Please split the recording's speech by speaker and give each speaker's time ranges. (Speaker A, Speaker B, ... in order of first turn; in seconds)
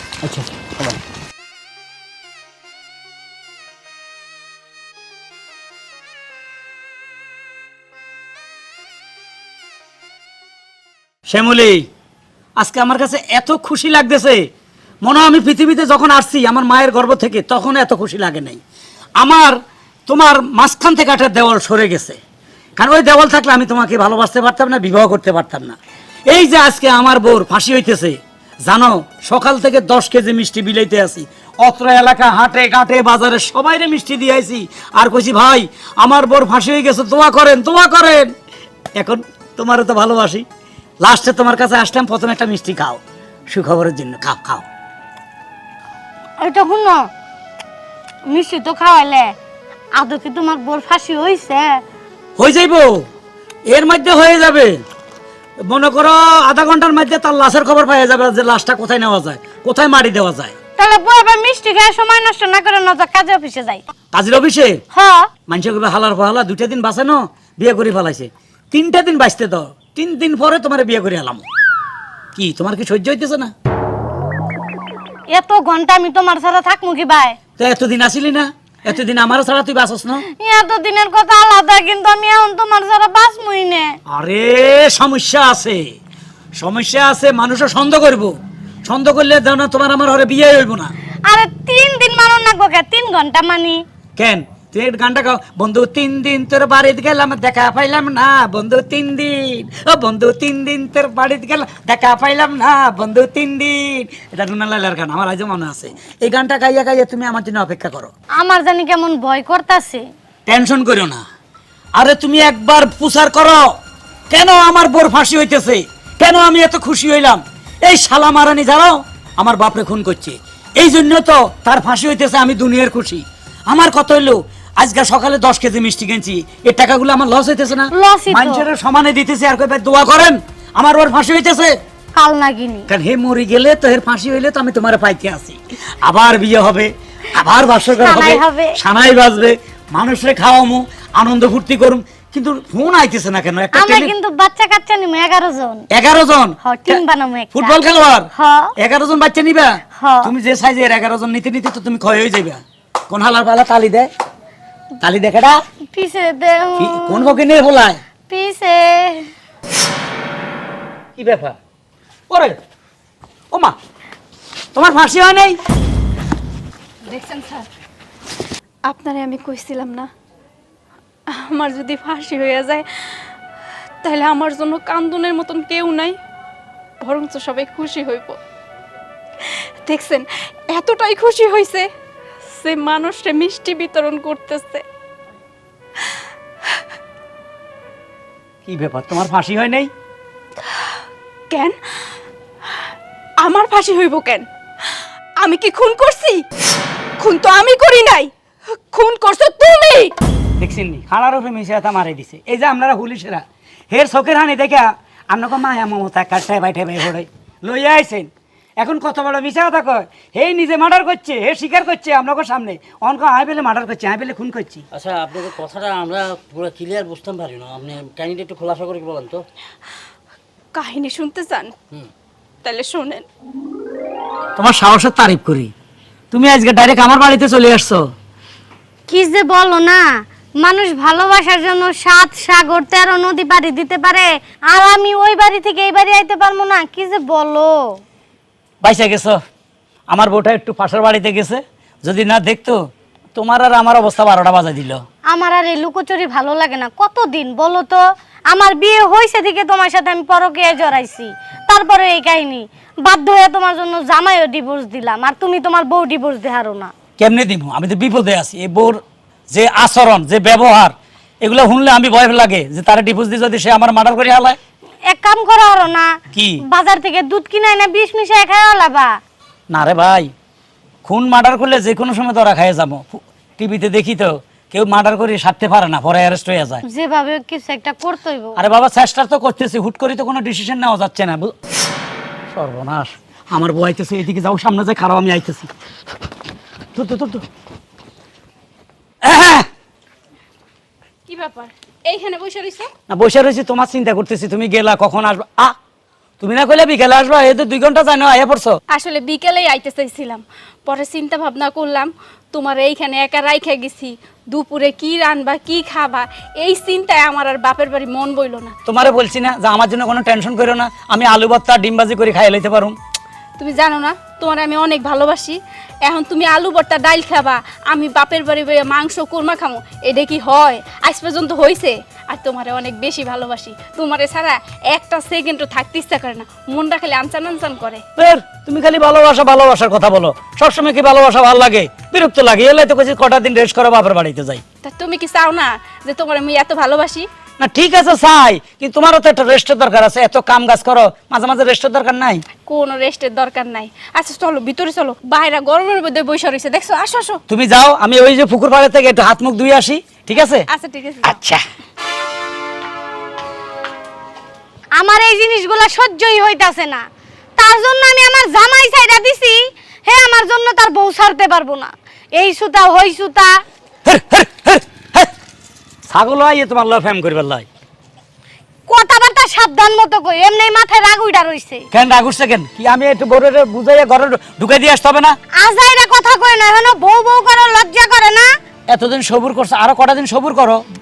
Speaker A: 0.2-1.0, 214.9-219.4
Speaker B: 11.3-11.9, 12.6-14.4, 15.0-18.6, 19.2-19.5, 20.1-22.2, 22.8-25.8, 26.3-38.3, 39.0-40.4, 41.0-44.6, 52.4-53.0, 53.7-54.8, 55.7-60.5, 64.1-64.8, 65.5-71.4, 72.3-73.5, 77.6-80.2, 84.1-85.8, 86.6-88.3, 88.8-90.9, 94.2-108.1, 110.5-111.2, 112.0-113.7, 114.3-131.7, 132.9-144.1, 145.9-147.0, 147.5-148.3, 148.8-154.1, 155.0-155.6, 156.8-158.0, 161.2-161.6, 162.3-162.6, 164.7-165.6, 188.7-189.9, 200.6-214.8, 224.6-225.7, 226.3-228.0, 238.8-239.4, 240.1-242.8, 243.3-245.0, 257.2-259.0, 259.5-264.6, 266.3-266.6, 269.7-270.3, 271.0-276.8, 278.6-281.5, 282.5-285.7, 286.9-287.4, 289.2-289.7, 293.1-295.8, 296.4-298.8, 308.9-312.9, 328.1-334.6, 337.6-342.4, 347.5-350.6, 351.2-351.6, 364.1-365.3, 366.1-367.6, 371.9-375.4, 378.9-380.8
Speaker C: 46.4-47.1, 48.3-49.3, 50.0-51.8, 60.8-63.8, 64.9-65.3, 75.3-77.4, 80.4-84.0, 91.3-93.8, 108.4-110.0, 127.9-128.7, 132.1-132.9, 138.0-138.8, 143.7-145.8, 146.6-147.8, 148.3-148.7, 150.0-150.3, 155.9-157.3, 158.3-159.3, 229.1-230.0, 230.6-237.7, 245.3-256.9, 265.1-266.1, 266.7-269.1, 276.9-278.6, 355.0-357.0, 357.6-363.5, 368.9-371.9, 375.6-378.4
Speaker D: 167.0-167.7, 168.8-170.1, 171.3-173.2, 174.0-176.2, 177.0-178.4, 179.8-181.9, 182.5-184.8, 191.5-191.8, 193.4-194.4, 195.4-196.4, 197.2-198.3, 198.9-200.1, 220.7-221.7, 222.6-223.2, 291.3-292.9, 298.9-308.7, 313.6-328.0, 334.8-337.3, 342.6-347.4, 350.7-351.4